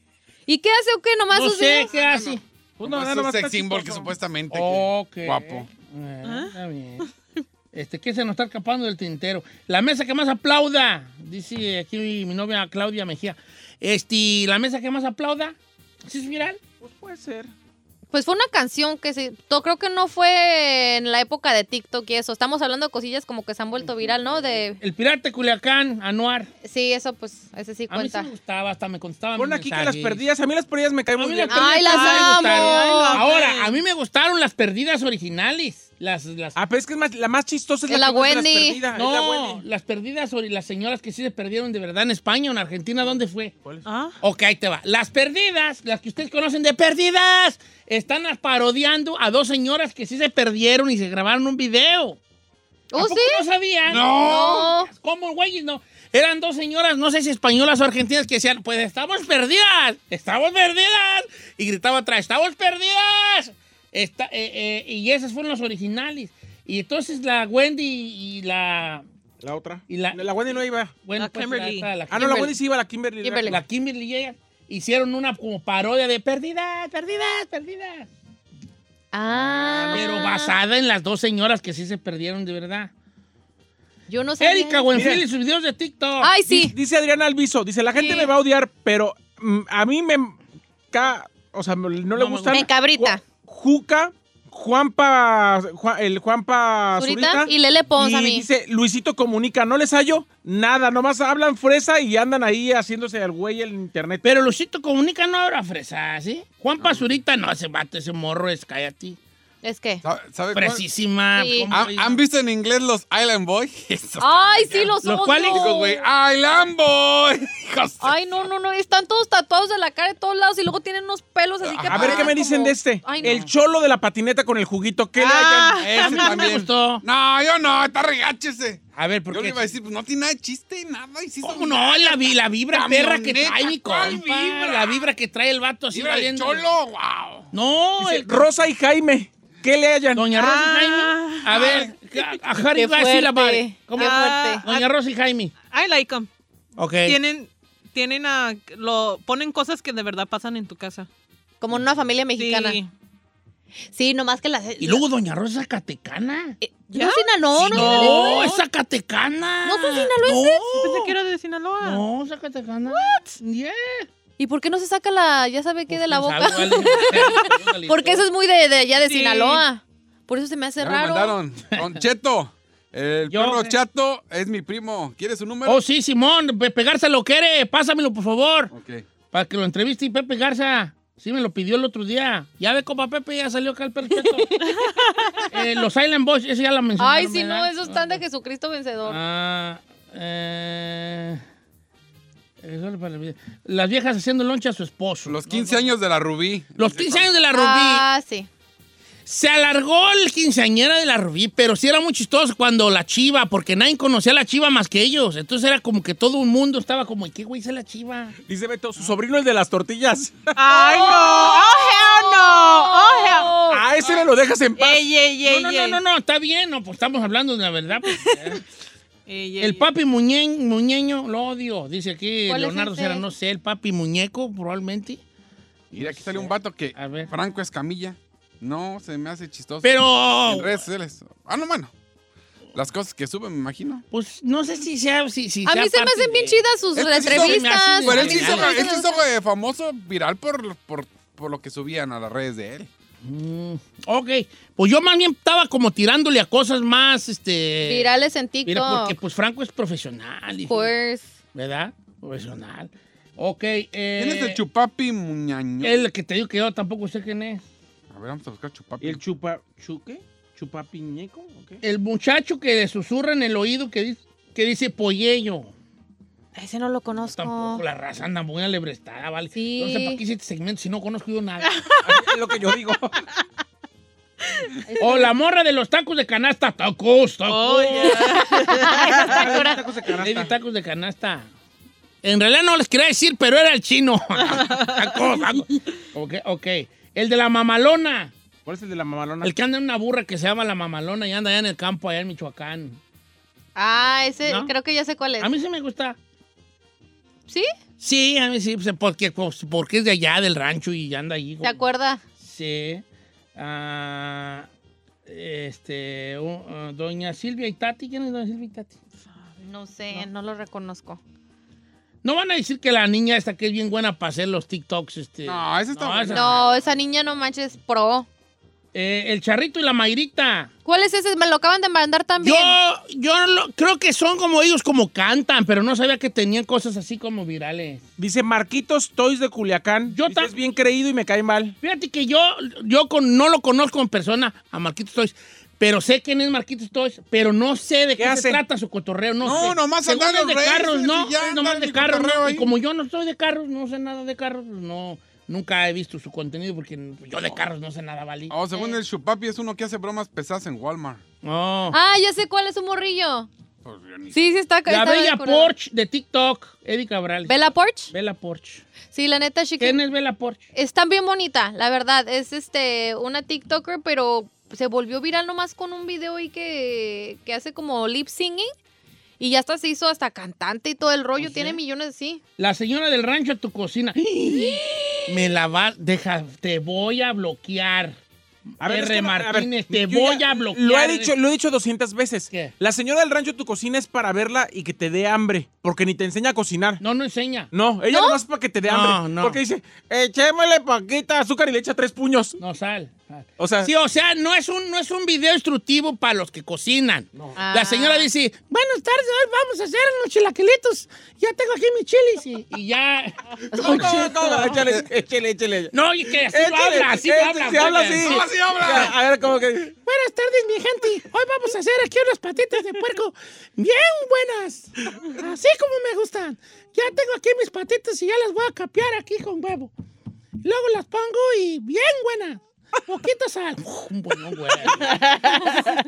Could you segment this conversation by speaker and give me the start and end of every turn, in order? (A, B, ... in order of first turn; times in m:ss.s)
0:00.5-0:01.9 A
0:01.3-0:02.4 B
0:01.9-0:05.7 C
0:02.8-0:04.1 D
0:04.5-0:07.1 B
0:06.2-0:06.6 E
0:07.7-0:16.6 B
0:16.8-0:17.5 D
0:18.1-0:24.8 A
0:24.8-0:26.5 B
0:26.6-0:28.3 A
0:27.9-0:30.2 B
0:29.4-0:31.9 D
0:31.2-0:36.6 B
0:31.5-0:33.2 A
0:31.9-0:33.8 E
0:36.6-0:39.6 D
0:37.9-0:38.8 A
0:38.9-0:43.5 B
0:43.8-0:44.2 E
0:44.2-0:52.2 B
0:52.9-0:53.4 A
0:53.0-1:09.0 B
0:53.9-0:54.7 C
0:54.1-0:54.9 A
1:09.4-1:11.0 D
1:09.9-1:10.3 B
1:11.0-1:12.5 B
1:11.2-1:12.0 E
1:12.1-1:13.6 D
1:12.2-1:12.5 A
1:13.2-1:13.6 A
1:13.5-1:18.1 B
1:19.1-1:20.5 A
1:19.3-1:20.2 D
1:19.9-1:22.9 B
1:24.1-1:25.1 A
1:24.4-1:26.3 B
1:24.9-1:25.2 D
1:26.2-1:26.8 A
1:26.5-1:30.4 D
1:27.9-1:28.3 A
1:30.9-1:44.2 D
1:32.2-1:32.7 B
1:32.5-1:33.2 A
1:37.0-1:38.5 A
1:44.2-1:49.2 B
1:46.8-1:47.0 C
1:49.6-1:50.0 A
1:50.0-1:50.8 C
1:50.5-1:52.2 B
1:51.4-1:51.7 A
1:51.7-1:55.0 C
1:54.2-1:56.0 A
1:55.0-1:55.7 B
1:55.5-1:58.2 C
1:58.0-2:03.4 A
2:01.6-2:02.3 C
2:01.9-2:05.8 D
2:03.2-2:03.5 B
2:05.2-2:06.2 E
2:05.8-2:15.1 C
2:06.0-2:07.0 B
2:09.0-2:09.7 B
2:11.4-2:16.6 B
2:15.9-2:17.5 C
2:17.5-2:18.4 B
2:18.0-2:20.3 D
2:20.2-2:25.5 B
2:20.3-2:21.8 E
2:21.5-2:21.9 C
2:22.8-2:24.6 A
2:24.0-2:24.9 E
2:25.7-2:26.3 E
2:26.8-2:27.2 B
2:27.0-2:31.1 E
2:31.6-2:32.8 A
2:32.4-2:32.9 E
2:33.9-2:35.0 A
2:34.8-2:36.6 B
2:36.6-2:38.6 A
2:36.9-2:38.6 E
2:37.6-2:41.2 B
2:39.6-2:40.8 A
2:40.8-2:42.0 E
2:41.8-2:44.1 B
2:44.4-2:51.4 A
2:45.9-2:48.3 B
2:49.0-2:49.6 E
2:50.8-2:55.8 C
2:51.7-2:52.0 B
2:53.3-2:53.8 B
2:55.7-2:58.7 B
2:58.7-2:59.0 C
2:59.3-3:04.5 B
3:04.3-3:05.5 A
3:04.8-3:05.4 E
3:05.5-3:08.2 B
3:07.0-3:09.2 A
3:09.1-3:11.4 B
3:12.6-3:15.9 B
3:15.3-3:17.3 C
3:16.8-3:18.1 B
3:17.5-3:18.5 A
3:19.3-3:28.4 B
3:28.5-3:30.6 D
3:30.6-3:33.6 E
3:30.7-3:33.8 A
3:33.6-3:35.1 D
3:34.8-3:36.0 E
3:35.4-3:38.6 B
3:38.1-3:38.4 E
3:39.3-3:39.9 E
3:39.6-3:45.2 B
3:42.5-3:43.2 A
3:45.9-3:47.3 B
3:45.9-3:51.9 C
3:49.8-3:50.8 B
3:52.8-3:54.0 C
3:54.1-3:58.8 B
3:55.7-3:59.2 A
3:57.0-4:02.9 C
4:03.2-4:08.1 B
4:07.8-4:09.2 A
4:08.7-4:10.9 B
4:10.7-4:11.3 A
4:11.5-4:14.6 B
4:14.2-4:16.0 C
4:15.8-4:17.6 B
4:18.1-4:19.2 C
4:19.0-4:21.8 D
4:21.8-4:25.7 B
4:26.6-4:27.8 A
4:27.2-4:31.7 B
4:29.5-4:30.2 A
4:31.6-4:32.3 E
4:32.0-4:33.2 D
4:34.4-4:34.8 E
4:34.9-4:35.3 A
4:35.0-4:38.6 B
4:37.5-4:39.4 E
4:38.5-4:39.8 A
4:38.8-4:40.5 D
4:40.2-4:41.5 B
4:42.2-4:48.3 B
4:44.4-4:45.4 E
4:48.7-4:49.5 D
4:49.4-4:53.0 B
4:53.8-4:55.5 A
4:54.4-4:54.7 B
4:55.4-4:56.2 B
4:58.0-5:01.8 B
5:01.6-5:02.2 A
5:02.4-5:03.0 B
5:03.6-5:04.7 B
5:05.3-5:09.0 B
5:09.6-5:11.2 A
5:12.2-5:16.6 B
5:15.5-5:16.7 C
5:16.3-5:18.3 A
5:18.9-5:20.7 B
5:20.9-5:22.8 A
5:22.4-5:28.0 B
5:28.2-5:31.8 D
5:30.1-5:30.5 B
5:31.8-5:48.5 B
5:38.2-5:38.6 D
5:39.4-5:42.7 C
5:48.5-5:51.2 C
5:48.7-5:49.0 A
5:51.4-5:52.0 B
5:51.9-5:53.5 A
5:53.8-5:54.4 C
5:54.3-5:55.7 A
5:54.9-5:58.8 B
5:57.5-5:58.1 A
5:59.1-6:00.0 A
5:59.8-6:00.6 B
6:00.7-6:08.7 A
6:09.4-6:12.4 A
6:11.4-6:11.8 B
6:12.6-6:18.2 B
6:14.5-6:15.1 A
6:18.8-6:21.3 B
6:18.8-6:27.0 D
6:27.0-6:27.7 B
6:27.7-6:32.6 D
6:28.1-6:28.4 A
6:28.9-6:29.6 B
6:32.6-6:44.9 B
6:33.6-6:33.9 D
6:37.6-6:38.3 A
6:43.7-6:49.9 D
6:43.8-6:44.2 A
6:45.9-6:49.1 B
6:48.2-6:49.2 C
6:50.0-6:59.9 B
7:00.6-7:05.7 B
7:05.0-7:06.0 E